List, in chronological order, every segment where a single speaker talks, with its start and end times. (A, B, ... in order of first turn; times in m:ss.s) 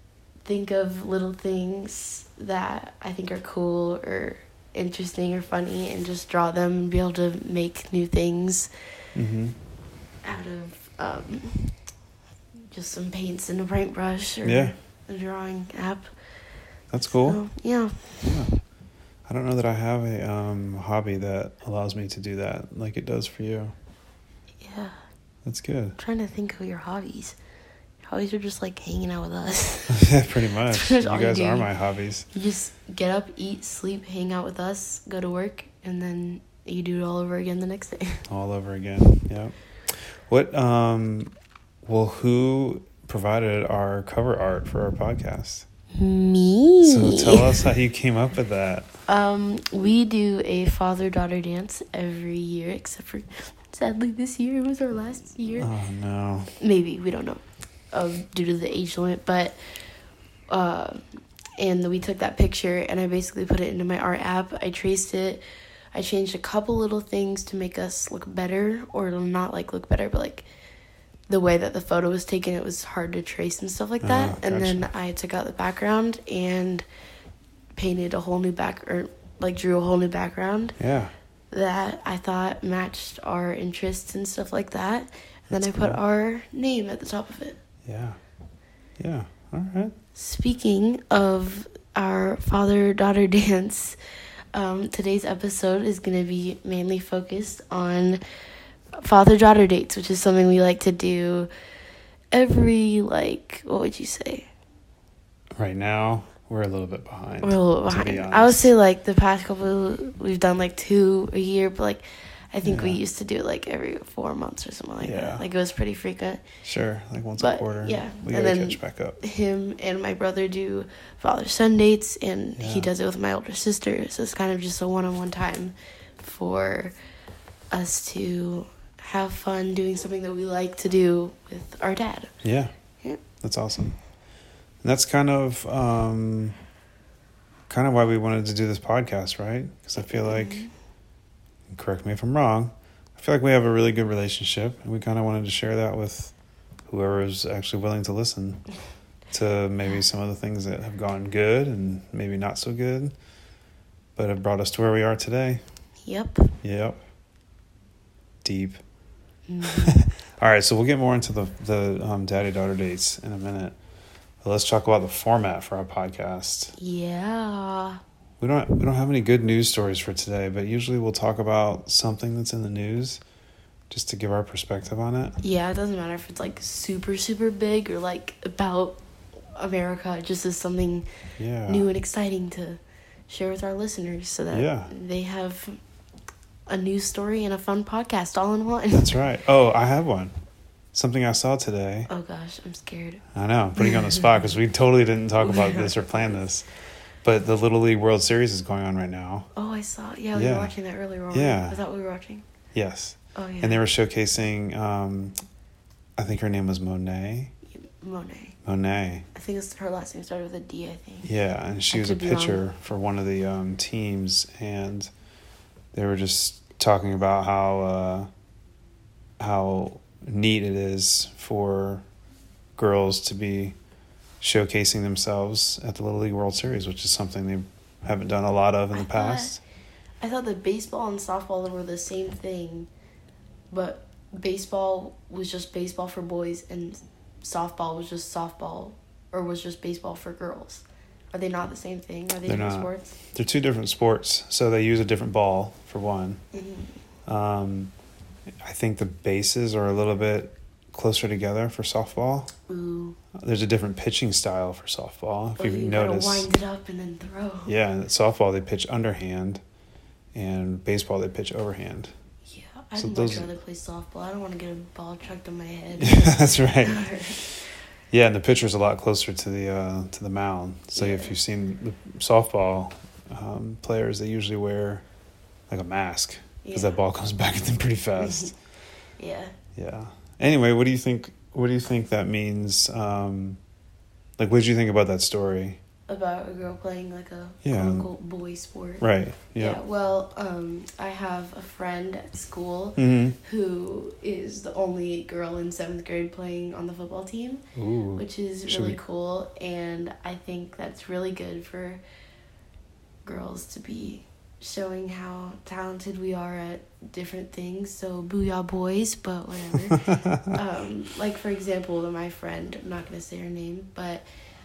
0:00.5-0:08.7 A
0:09.2-0:09.6 B
0:10.2-0:11.8 A
0:12.7-0:16.1 A
0:14.4-0:14.8 B
0:16.9-0:17.4 B
0:17.1-0:18.4 A
0:18.2-0:18.5 B
0:19.3-0:23.7 B
0:24.6-0:25.0 A
0:25.4-0:26.0 B
0:26.0-0:27.4 A
0:28.0-0:30.1 A
0:29.9-0:32.3 B
0:30.7-0:31.7 A
0:32.3-0:38.3 A
0:38.3-0:41.3 B
0:41.8-0:45.6 B
0:46.0-0:47.6 A
0:46.8-0:48.9 B
0:49.1-0:55.7 A
0:55.6-0:56.6 B
0:56.6-0:57.4 A
0:57.9-0:59.6 A
1:00.5-1:01.0 A
1:01.6-1:10.5 A
1:11.3-1:16.8 A
1:14.0-1:14.9 B
1:17.8-1:20.8 A
1:20.8-1:21.1 B
1:21.5-1:27.6 A
1:25.5-1:26.0 B
1:27.8-1:28.2 B
1:29.0-1:30.0 B
1:30.2-1:34.0 A
1:34.5-1:38.2 A
1:39.0-1:41.5 A
1:42.3-1:44.5 A
1:45.6-1:48.7 B
1:47.4-1:56.4 A
1:52.6-1:53.0 B
1:55.0-1:55.4 B
1:56.6-1:59.2 B
1:57.4-2:07.0 A
2:02.6-2:02.9 B
2:07.7-2:12.3 A
2:12.4-2:12.7 B
2:13.4-2:14.0 B
2:14.8-2:16.6 B
2:17.7-2:20.6 B
2:20.0-2:20.7 A
2:21.7-2:26.3 B
2:26.9-2:28.7 B
2:29.3-2:33.2 B
2:34.2-2:35.6 B
2:36.1-2:36.5 A
2:36.6-2:37.0 B
2:38.4-2:38.8 B
2:39.5-2:40.0 A
2:39.6-2:43.8 B
2:44.4-2:46.8 B
2:46.8-2:48.0 A
2:48.4-2:53.2 B
2:53.9-2:55.4 B
2:55.4-2:59.0 A
2:59.6-3:01.1 A
3:01.4-3:01.9 B
3:01.7-3:05.8 A
3:04.5-3:04.9 B
3:06.7-3:09.2 A
3:08.9-3:10.3 B
3:10.9-3:12.1 B
3:12.1-3:13.2 A
3:13.3-3:16.7 B
3:15.4-3:16.5 A
3:17.2-3:19.5 B
3:19.6-3:22.4 A
3:20.3-3:20.7 B
3:21.3-3:21.8 B
3:22.7-3:25.4 B
3:23.4-3:23.8 A
3:26.2-3:27.5 B
3:27.7-3:28.6 A
3:28.6-3:29.3 B
3:29.3-3:31.3 A
3:31.2-3:35.1 B
3:31.9-3:32.6 A
3:35.9-3:38.3 B
3:39.4-3:42.0 B
3:42.8-3:43.8 B
3:44.4-3:49.6 B
3:48.9-3:49.6 A
3:50.2-3:52.9 A
3:53.7-4:03.2 A
4:02.5-4:06.4 B
4:06.5-4:06.9 A
4:07.3-4:07.9 B
4:08.6-4:12.5 B
4:12.7-4:13.2 A
4:13.4-4:16.5 B
4:15.6-4:17.7 A
4:17.7-4:19.6 B
4:20.3-4:22.1 B
4:22.5-4:27.4 A
4:23.0-4:23.5 B
4:26.0-4:27.6 B
4:28.1-4:35.0 B
4:31.0-4:31.4 A
4:35.7-4:38.6 B
4:36.6-4:37.0 A
4:38.2-4:38.5 A
4:39.2-4:39.6 A
4:39.8-4:43.6 B
4:44.4-4:45.8 B
4:46.1-4:49.0 A
4:47.6-4:48.1 B
4:49.0-4:49.8 B
4:49.6-4:57.6 A
4:53.0-4:53.4 B
4:57.8-4:59.0 B
4:58.2-5:02.0 A
5:03.2-5:14.2 A
5:09.7-5:10.6 B